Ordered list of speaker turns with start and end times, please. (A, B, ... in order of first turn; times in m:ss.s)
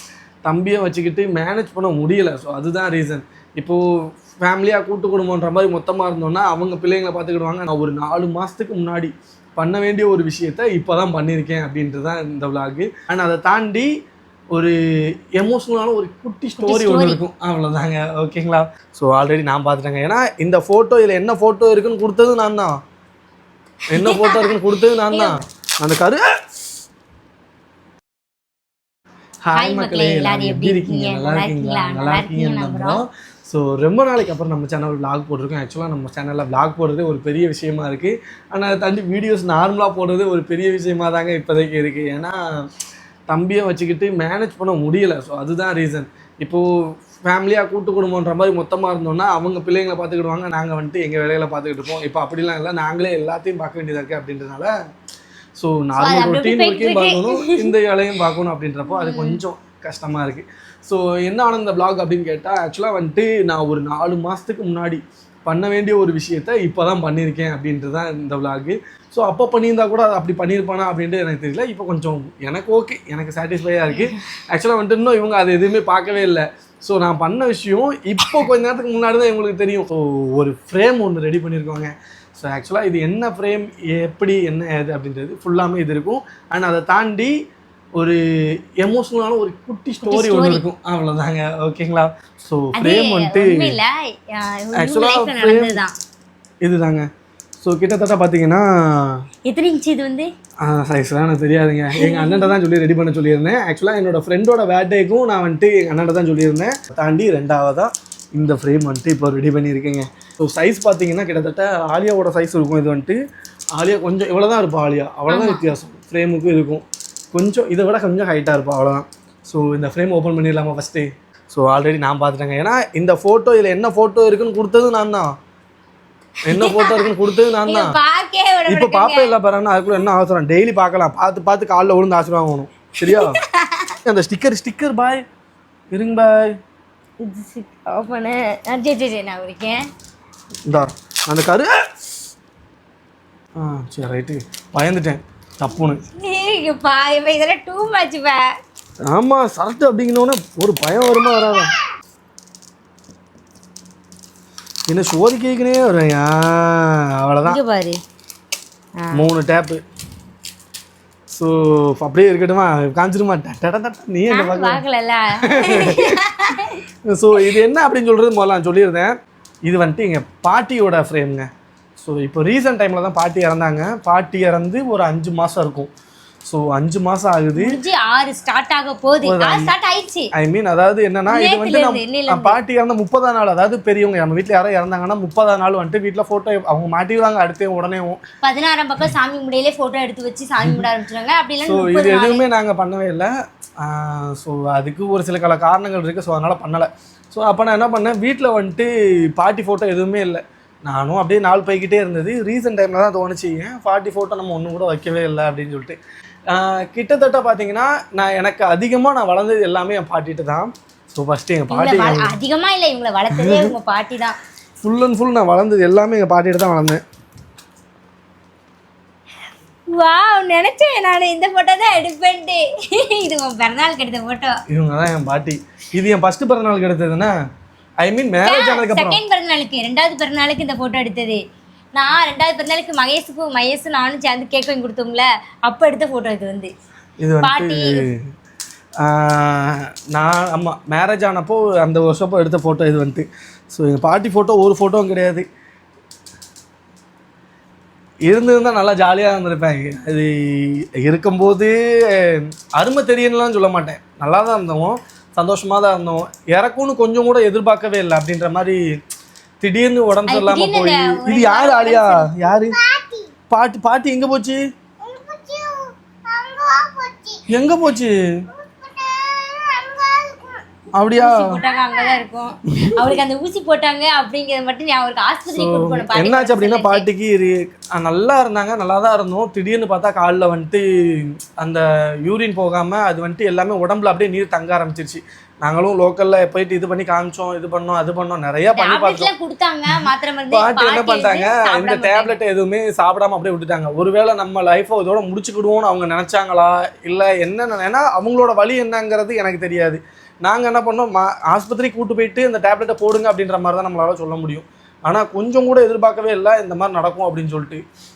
0:00.4-0:03.8 A
0:04.4-0:13.9 A
0:15.4-0:22.8 A
0:16.6-0:17.2 B
0:23.9-0:26.2 A
0:24.0-0:25.4 B
0:29.5-0:42.4 A
0:29.5-0:33.0 B
0:43.3-0:46.6 A
0:47.2-0:54.7 A
0:55.6-1:27.3 A
0:56.0-0:57.7 B
0:58.9-0:59.4 B
1:28.8-1:33.8 A
1:30.0-1:30.6 B
1:32.7-1:36.0 B
1:34.8-1:35.8 A
1:36.6-1:37.1 A
1:37.6-1:39.2 A
1:39.5-1:40.3 B
1:40.6-1:53.2 A
1:41.9-1:42.5 B
1:53.8-2:05.3 A
1:55.3-1:55.7 B
2:06.5-2:08.0 A
2:06.5-2:09.3 B
2:08.7-2:13.4 A
2:13.0-2:14.0 B
2:14.0-2:15.2 A
2:15.9-2:16.5 A
2:17.2-2:19.8 B
2:20.7-2:21.7 A
2:23.6-2:26.0 A
2:26.1-2:28.6 B
2:29.1-2:31.7 A
2:31.3-2:31.7 B
2:34.9-2:37.6 A
2:37.4-2:38.0 B
2:39.0-2:39.2 B
2:39.2-2:39.8 A
2:41.4-2:44.8 A
2:44.3-2:46.8 B
2:45.5-2:46.2 A
2:47.1-2:49.1 A
2:49.7-2:51.5 A
2:52.0-2:55.9 A
2:56.5-2:57.8 A
2:57.6-3:00.3 B
2:59.2-2:59.7 A
3:00.3-3:08.2 A
3:01.3-3:02.6 B
3:08.4-3:12.4 B
3:11.7-3:26.0 A
3:26.5-3:32.3 A
3:31.7-3:34.4 B
3:33.3-3:33.7 A
3:34.8-3:37.0 A
3:39.9-3:44.6 B
3:44.7-3:47.4 A
3:48.0-3:49.2 A
3:48.4-3:51.4 B
3:52.0-3:56.7 B
3:57.2-3:58.2 A
3:57.4-3:58.0 B
3:59.0-4:05.5 A
4:08.3-4:18.8 A
4:19.6-4:22.8 A
4:20.3-4:23.3 B
4:23.5-4:24.6 A
4:25.0-4:27.5 B
4:27.5-4:28.1 A
4:28.6-4:30.6 B
4:31.0-4:31.6 A
4:31.2-4:37.1 B
4:35.5-4:49.3 A
4:48.7-4:52.4 B
4:50.5-5:07.8 A